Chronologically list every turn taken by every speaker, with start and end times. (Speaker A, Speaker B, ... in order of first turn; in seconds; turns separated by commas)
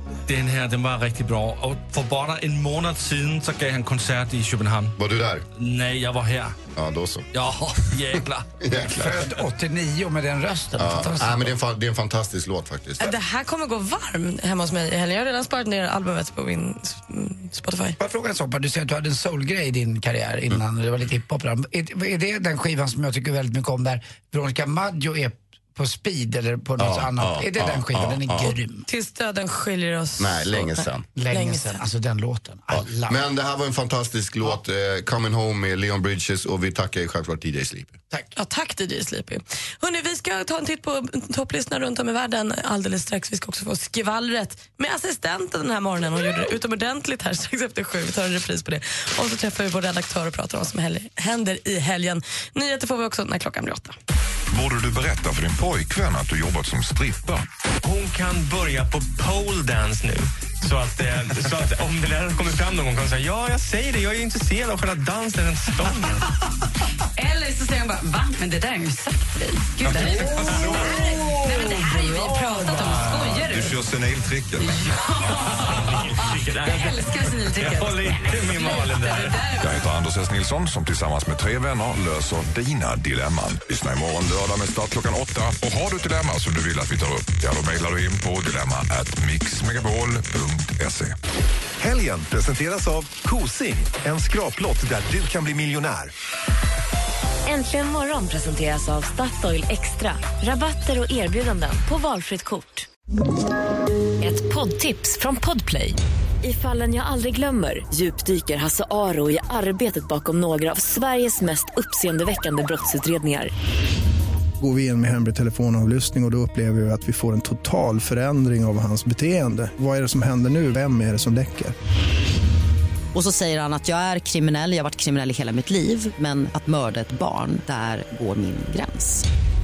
Speaker A: 0.3-5.0, Speaker B: 5.0-5.4, Speaker A: 5.6-6.5, Speaker B: 6.7-7.3, Speaker A: 7.3-8.5, Speaker B: 8.6-9.2, Speaker C: 8.8-11.6, Speaker B: 10.8-13.1, Speaker D: 13.0-17.9, Speaker C: 18.0-28.9, Speaker B: 26.8-28.5, Speaker D: 28.9-31.8, Speaker B: 30.2-31.1, Speaker C: 31.1-33.2, Speaker B: 32.7-38.0, Speaker D: 38.4-54.0, Speaker E: 54.5-57.4, Speaker F: 57.8-66.2, Speaker G: 67.2-73.8, Speaker E: 73.4-74.7, Speaker G: 74.6-76.1, Speaker F: 76.3-77.0, Speaker G: 76.6-79.8, Speaker F: 77.7-79.3, Speaker A: 78.3-79.1, Speaker E: 79.6-91.1, Speaker H: 91.8-96.1, Speaker I: 97.5-102.9, Speaker I: 104.2-113.5, Speaker J: 114.6-121.7, Speaker K: 123.1-129.2